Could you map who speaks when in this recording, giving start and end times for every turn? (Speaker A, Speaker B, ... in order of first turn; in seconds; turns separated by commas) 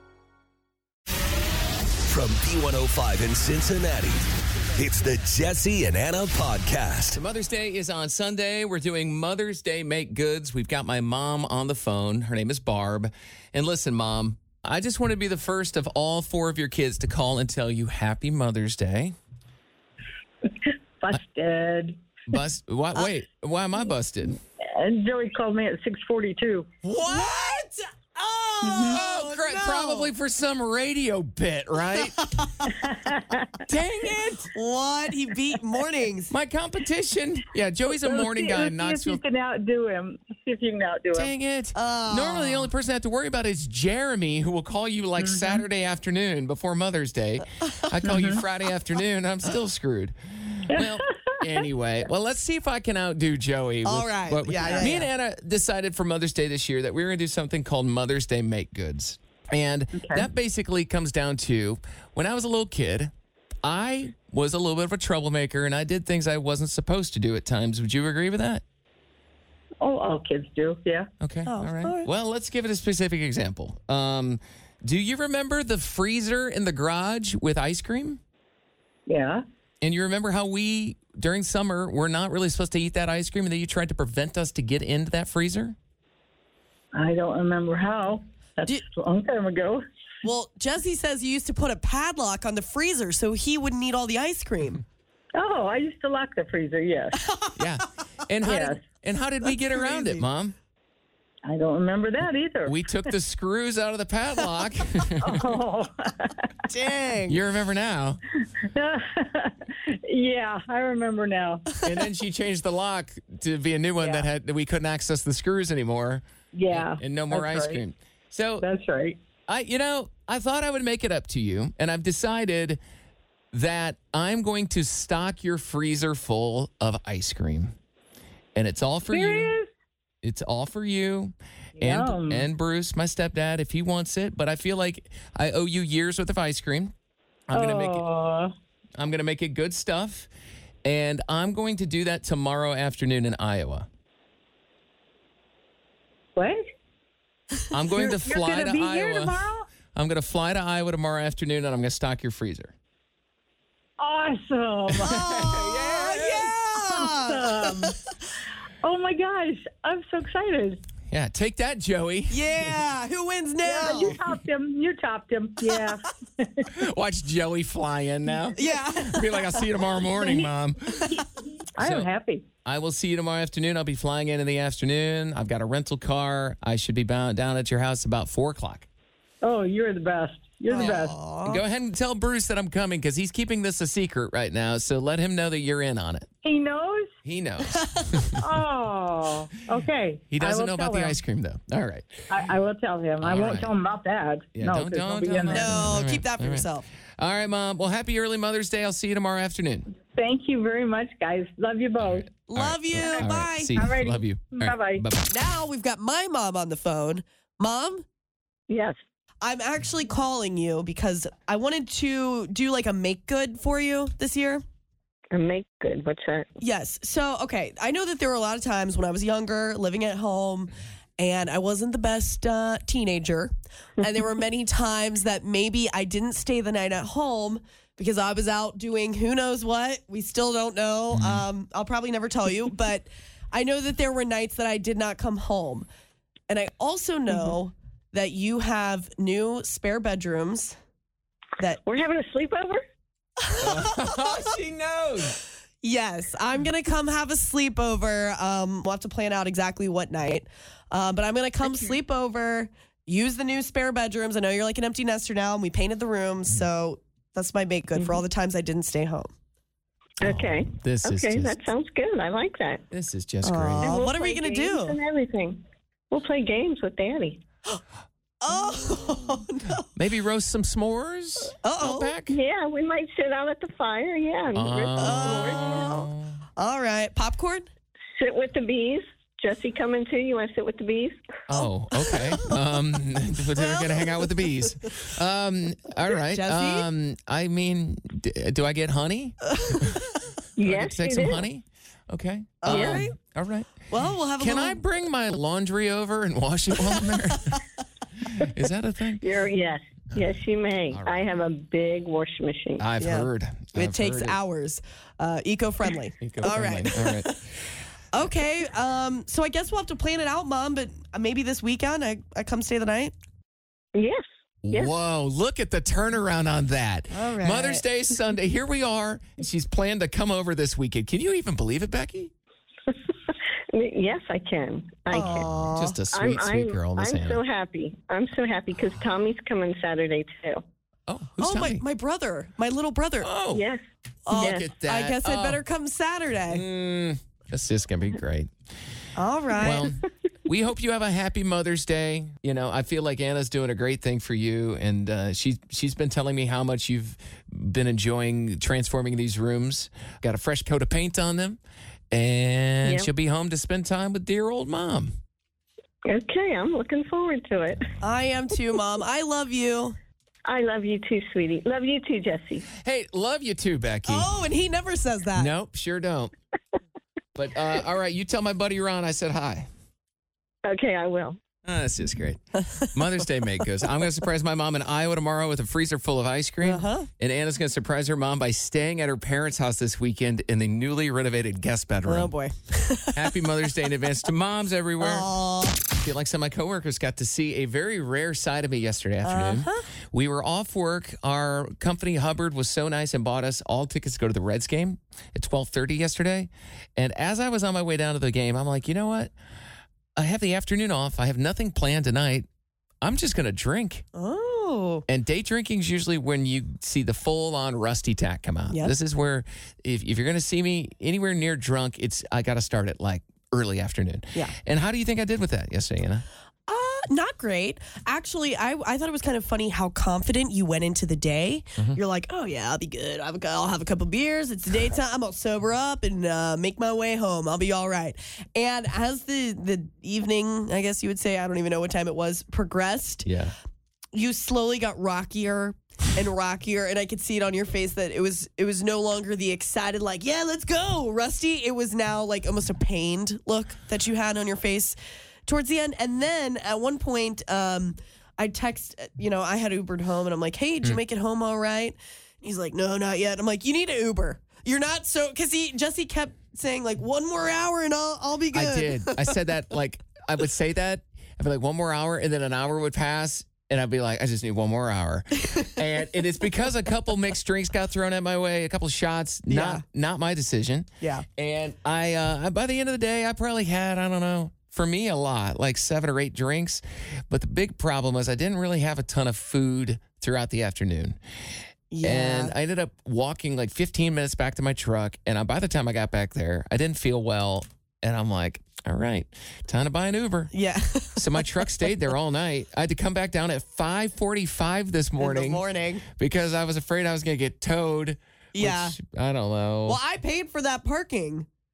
Speaker A: 2.0-7.2, Speaker B: 7.1-19.1, Speaker C: 21.0-22.0, Speaker B: 22.3-24.4, Speaker C: 24.7-26.7, Speaker B: 26.8-27.3, Speaker D: 27.0-30.1, Speaker C: 28.6-29.0, Speaker B: 28.7-32.3, Speaker D: 32.0-32.7, Speaker C: 32.6-33.6, Speaker B: 33.7-34.5, Speaker D: 34.5-36.3, Speaker B: 36.3-39.2, Speaker C: 37.9-41.3, Speaker B: 41.1-63.1, Speaker D: 41.7-42.7, Speaker C: 45.2-45.6, Speaker C: 48.0-48.4, Speaker C: 50.7-51.6, Speaker D: 53.8-55.1, Speaker C: 54.6-54.9, Speaker C: 59.9-60.3, Speaker B: 63.6-68.6, Speaker C: 69.8-71.1, Speaker B: 71.2-78.2, Speaker D: 71.5-72.1, Speaker C: 79.0-79.4, Speaker B: 79.8-85.8, Speaker C: 86.9-89.8, Speaker D: 90.2-94.8, Speaker C: 95.3-97.2, Speaker D: 97.2-97.6, Speaker B: 97.5-100.5, Speaker C: 98.4-98.8, Speaker D: 99.6-100.2, Speaker C: 101.4-102.8, Speaker B: 102.6-105.5, Speaker C: 105.2-106.5, Speaker D: 106.7-107.4, Speaker B: 107.3-108.2, Speaker C: 108.6-111.6, Speaker B: 111.8-118.6, Speaker C: 114.0-114.3, Speaker C: 116.5-117.8, Speaker C: 118.6-119.2, Speaker B: 119.5-122.8, Speaker B: 123.5-127.7, Speaker B: 128.5-129.5, Speaker C: 129.1-129.7, Speaker B: 130.2-136.9, Speaker C: 131.8-132.5, Speaker B: 137.5-138.1, Speaker C: 137.5-138.5, Speaker B: 138.9-140.3, Speaker B: 140.8-143.9, Speaker C: 146.3-146.6, Speaker B: 147.7-149.4, Speaker C: 147.9-149.7, Speaker B: 149.9-152.7, Speaker C: 154.0-158.0, Speaker B: 154.9-156.4, Speaker D: 155.0-157.9, Speaker C: 158.8-160.8, Speaker B: 161.1-162.5, Speaker D: 162.3-164.2, Speaker C: 163.6-166.7, Speaker B: 166.7-171.0, Speaker D: 168.6-169.5, Speaker C: 170.2-170.5, Speaker C: 171.1-172.4, Speaker B: 171.8-172.1, Speaker B: 172.6-178.9, Speaker C: 179.4-181.2, Speaker D: 180.7-181.6, Speaker B: 180.7-186.3, Speaker C: 186.4-187.1, Speaker B: 187.2-188.4, Speaker D: 187.7-188.2, Speaker C: 188.3-191.2, Speaker B: 190.3-192.3, Speaker C: 192.3-195.8, Speaker B: 193.2-193.7, Speaker B: 194.5-199.9, Speaker D: 195.5-196.8, Speaker C: 200.1-202.3, Speaker B: 202.0-205.3, Speaker D: 202.5-203.8, Speaker C: 202.9-205.1, Speaker D: 205.3-208.0, Speaker E: 208.7-209.0, Speaker D: 209.4-214.6, Speaker E: 215.3-216.5, Speaker D: 216.6-235.9, Speaker B: 231.1-231.4, Speaker D: 236.5-240.7, Speaker E: 241.8-242.8, Speaker D: 243.4-244.5, Speaker B: 243.6-245.4, Speaker D: 245.8-259.3, Speaker E: 257.9-258.2, Speaker E: 260.2-262.8, Speaker B: 260.2-261.6, Speaker B: 262.9-263.9, Speaker D: 263.4-264.9, Speaker E: 263.8-267.4, Speaker D: 268.4-269.8, Speaker B: 269.9-272.4, Speaker D: 271.6-272.1, Speaker E: 272.3-275.9, Speaker B: 274.5-276.4, Speaker D: 275.0-277.7, Speaker E: 278.1-281.2, Speaker B: 281.5-290.0, Speaker D: 282.1-282.5, Speaker D: 283.6-284.2, Speaker D: 286.1-286.9, Speaker D: 289.6-290.0, Speaker E: 290.6-291.4, Speaker B: 290.6-293.7, Speaker D: 292.6-293.1, Speaker E: 292.6-293.1, Speaker D: 293.9-294.8, Speaker B: 294.4-297.6, Speaker B: 298.2-299.2, Speaker E: 299.2-302.8, Speaker B: 302.8-304.4, Speaker D: 303.0-307.4, Speaker B: 306.2-307.3, Speaker D: 308.1-313.1, Speaker E: 313.9-314.9, Speaker B: 314.6-322.3, Speaker D: 317.1-317.8, Speaker E: 323.7-325.5, Speaker D: 325.1-326.0, Speaker B: 325.1-327.4, Speaker E: 326.1-330.6, Speaker B: 331.1-331.8, Speaker D: 331.4-333.3, Speaker B: 333.2-333.6, Speaker E: 333.5-334.6, Speaker D: 334.3-336.6, Speaker B: 334.3-335.6, Speaker B: 336.5-338.5, Speaker D: 339.1-339.9, Speaker B: 339.6-351.6, Speaker B: 352.1-355.1, Speaker E: 352.8-353.1, Speaker E: 356.1-357.9, Speaker D: 358.0-359.9, Speaker E: 360.4-362.7, Speaker B: 362.8-364.3, Speaker D: 364.1-365.5, Speaker B: 365.3-366.3, Speaker B: 367.3-369.7, Speaker E: 370.6-371.4, Speaker B: 371.6-382.3, Speaker D: 376.6-377.1, Speaker D: 382.1-383.3, Speaker B: 383.1-385.2, Speaker D: 385.0-385.8, Speaker B: 385.9-399.3, Speaker D: 389.2-389.9, Speaker B: 400.1-402.5, Speaker B: 403.0-404.0, Speaker D: 404.1-405.0, Speaker B: 405.1-416.2, Speaker D: 416.7-433.3, Speaker B: 433.2-433.5, Speaker D: 434.1-444.9, Speaker D: 445.5-459.3, Speaker B: 458.5-481.2, Speaker D: 469.5-469.8, Speaker D: 481.9-482.5, Speaker B: 482.0-490.5, Speaker D: 490.5-491.9, Speaker B: 491.2-500.0, Speaker D: 495.2-496.0, Speaker D: 498.5-498.9, Speaker D: 499.9-501.5